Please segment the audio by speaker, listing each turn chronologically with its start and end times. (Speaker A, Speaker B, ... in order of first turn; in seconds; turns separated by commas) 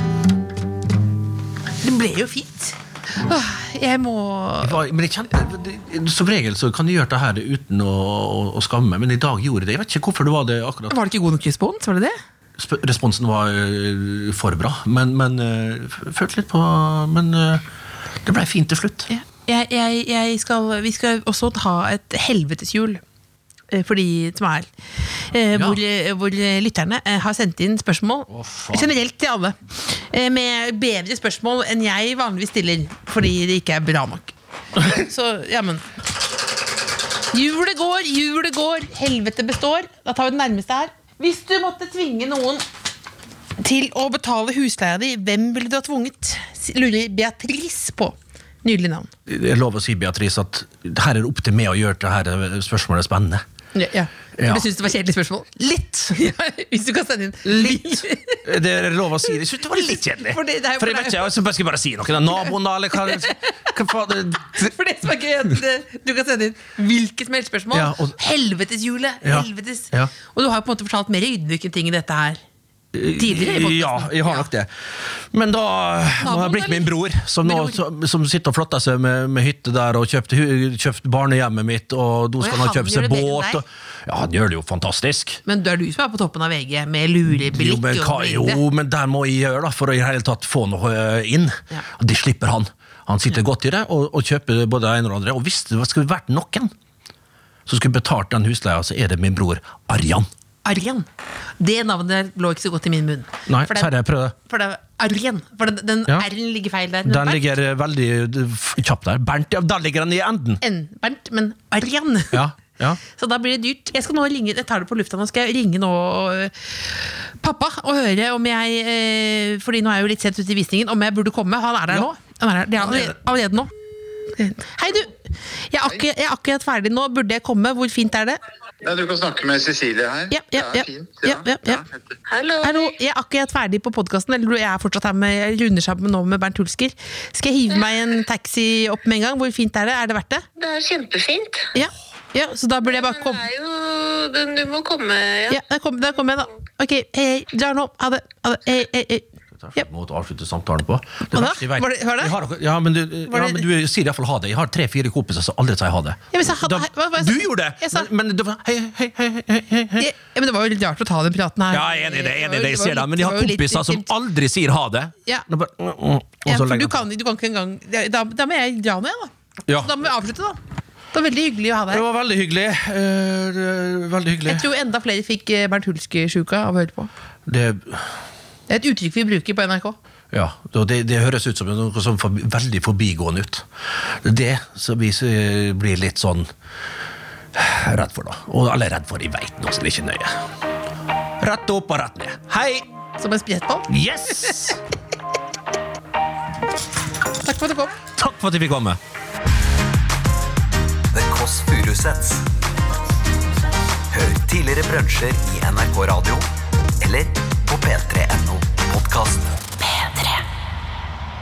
Speaker A: 1.8-4.8, Speaker B: 4.6-10.9, Speaker A: 10.9-12.2, Speaker B: 12.6-17.6, Speaker B: 18.2-19.1, Speaker A: 19.1-23.0, Speaker A: 23.7-24.7, Speaker A: 25.3-35.8, Speaker B: 25.5-25.8, Speaker B: 28.3-28.9, Speaker A: 37.3-42.6, Speaker A: 43.6-49.1, Speaker B: 49.3-53.4, Speaker A: 53.7-58.4, Speaker B: 54.4-54.7, Speaker B: 55.6-56.1, Speaker B: 57.4-64.7, Speaker A: 60.1-61.3, Speaker A: 63.0-63.5, Speaker A: 64.5-72.4, Speaker B: 67.7-68.2, Speaker B: 69.2-70.1, Speaker B: 72.9-85.4, Speaker A: 73.2-74.5, Speaker A: 76.2-77.8, Speaker A: 82.4-83.6, Speaker A: 85.5-88.6, Speaker B: 87.4-96.7, Speaker B: 97.7-100.3, Speaker A: 100.6-101.1, Speaker A: 101.6-107.5, Speaker B: 103.5-104.3, Speaker B: 107.0-110.6, Speaker A: 110.6-112.4, Speaker B: 112.3-113.0, Speaker A: 113.1-123.7, Speaker B: 122.8-123.1, Speaker A: 124.3-128.4, Speaker C: 128.8-132.1, Speaker A: 130.3-131.8, Speaker D: 132.3-132.9, Speaker A: 132.6-140.5, Speaker D: 140.6-141.7, Speaker A: 141.7-143.4, Speaker D: 142.9-145.6, Speaker A: 145.5-149.8, Speaker B: 149.6-160.1, Speaker A: 151.3-152.3, Speaker A: 153.3-153.6, Speaker A: 156.3-158.1, Speaker A: 160.0-164.1, Speaker B: 161.7-167.0, Speaker A: 166.4-170.6, Speaker B: 169.7-169.9, Speaker A: 171.1-172.0, Speaker B: 171.9-174.7, Speaker A: 174.4-177.1, Speaker B: 177.4-178.1, Speaker A: 178.7-179.9, Speaker B: 180.3-183.7, Speaker B: 184.2-186.5, Speaker B: 187.5-190.4, Speaker B: 191.4-192.9, Speaker A: 193.2-193.9, Speaker B: 193.9-194.8, Speaker A: 197.4-198.0, Speaker B: 198.2-199.0, Speaker E: 201.1-202.4, Speaker E: 204.1-206.5, Speaker E: 207.0-209.5, Speaker A: 209.8-210.4